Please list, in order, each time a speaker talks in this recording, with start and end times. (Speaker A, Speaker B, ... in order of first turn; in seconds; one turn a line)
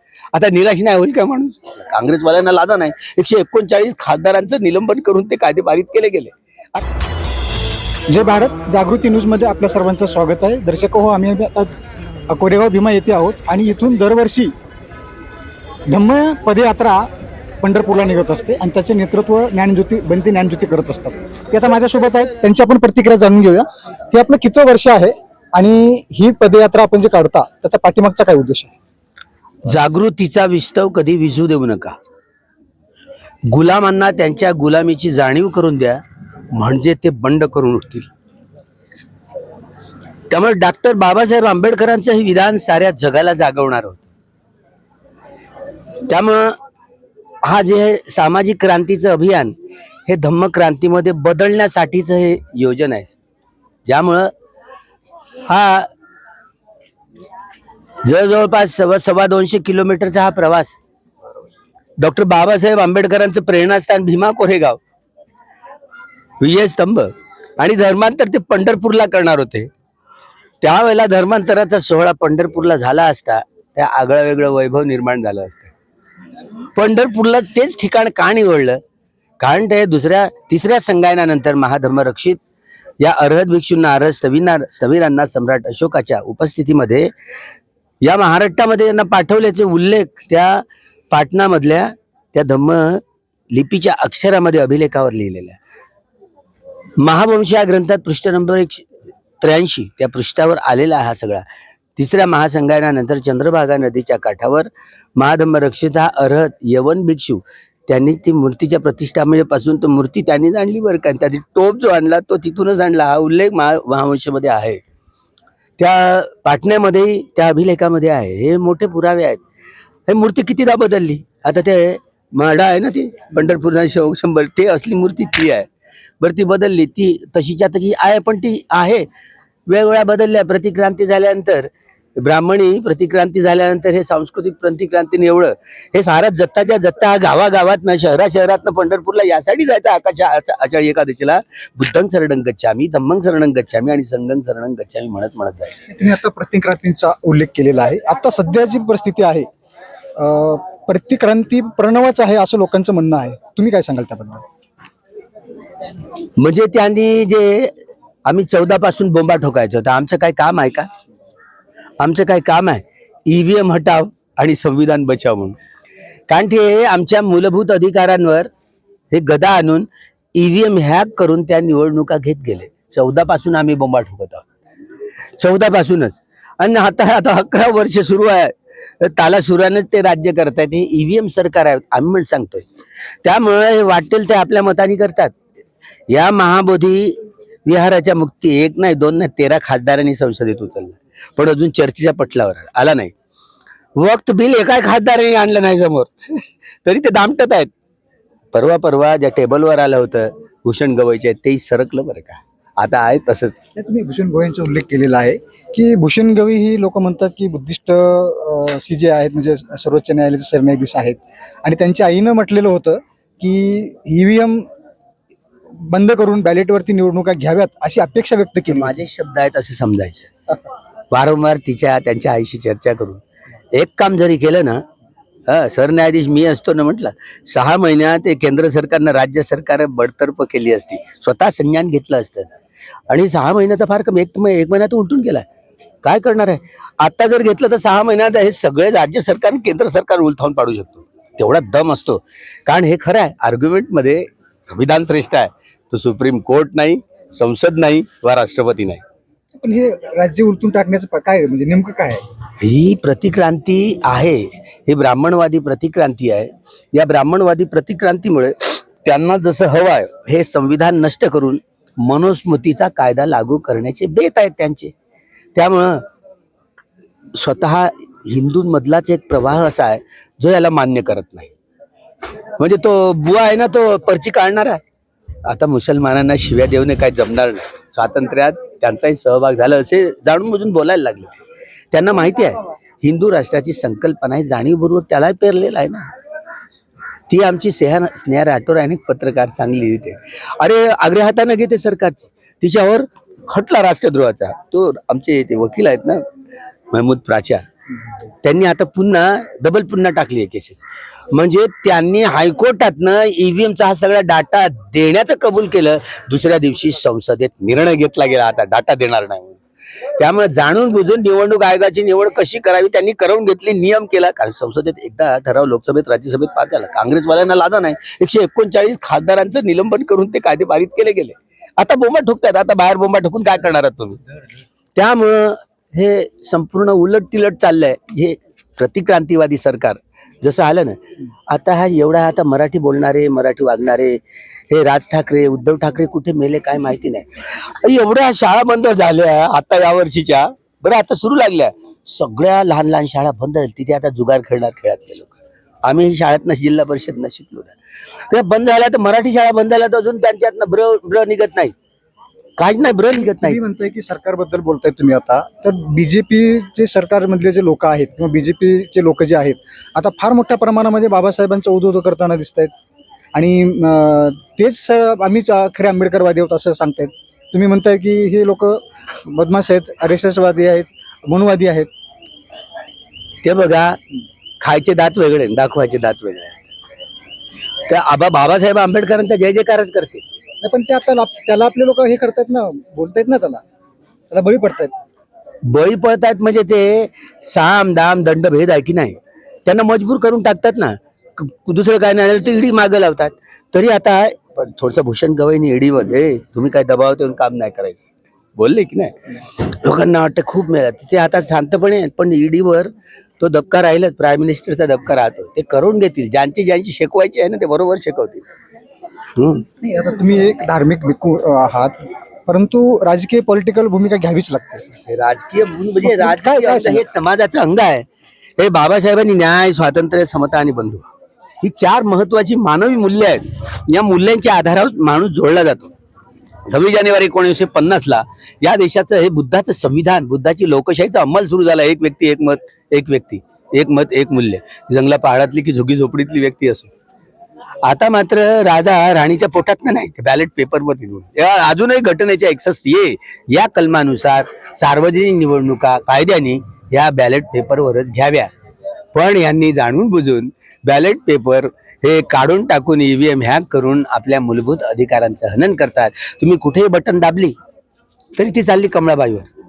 Speaker A: 0.3-6.8
Speaker B: 8.1-11.7
Speaker B: 12.3-14.5
Speaker B: 15.9-17.1
Speaker B: 17.6-28.7
Speaker A: 29.6-31.9
Speaker A: 33.5-36.0
Speaker A: 36.5-38.1
Speaker A: 40.3-44.1
Speaker A: 46.1-46.6
Speaker A: 47.4-49.5
Speaker A: 50.1-53.2
Speaker A: 53.9-54.3
Speaker A: 55.5-55.9
Speaker A: 58.0-60.8
Speaker A: 62.0-64.8
Speaker A: 66.4-69.7
Speaker A: 70.6-75.7
Speaker A: 76.7-78.8
Speaker A: 79.4-82.4
Speaker A: 83.0-87.1
Speaker A: 88.0-95.6
Speaker A: 97.0-98.9
Speaker A: 99.4-101.4
Speaker A: 102.0-114.8
Speaker A: 115.8-119.4
Speaker A: 120.1-125.7
Speaker A: 126.2-129.1
Speaker A: 129.7-145.9
Speaker B: 145.9-149.5
Speaker B: 150.2-154.4
Speaker A: 156.4-157.7
Speaker A: 158.2-160.9
Speaker A: 162.0-165.6
Speaker A: 166.3-168.5
Speaker A: 169.1-174.5
Speaker A: 175.4-182.7
Speaker A: 183.2-185.4
Speaker A: 186.1-193.1
Speaker A: 193.9-197.7
Speaker A: 198.5-203.6
Speaker B: 203.8-214.6
Speaker B: 215.8-218.9
Speaker A: 218.7-220.3
Speaker A: 221.1-223.2
Speaker A: 223.7-224.8
Speaker A: 225.5-232.5
Speaker A: 233.1-235.4
Speaker A: 236.0-249.0
Speaker B: 249.6-252.2
Speaker A: 252.6-264.9
Speaker A: 265.5-266.1
Speaker A: 267.3-271.5
Speaker A: 272.6-274.8
Speaker A: 275.4-286.1
Speaker A: 287.3-296.2
Speaker A: 296.9-297.6
Speaker A: 298.4-309.6
Speaker A: 310.2-324.2
Speaker A: 324.9-334.2
Speaker A: 334.7-347.7
Speaker A: 348.2-351.7
Speaker A: 352.6-353.6
Speaker B: 353.4-362.7
Speaker B: 363.3-371.9
Speaker A: 373.4-374.0
Speaker A: 374.6-376.7
Speaker A: 377.9-380.2
Speaker B: 380.6-383.6
Speaker B: 384.3-384.9
Speaker A: 385.7-408.4
Speaker A: 409.4-409.6
Speaker B: 409.8-411.9
Speaker B: 412.4-414.9
Speaker A: 415.1-418.1
Speaker B: 416.0-417.1
Speaker A: 418.6-421.1
Speaker A: 421.6-425.9
Speaker A: 426.7-436.9
Speaker A: 437.8-448.5
Speaker A: 449.1-457.5
Speaker A: 458.4-459.5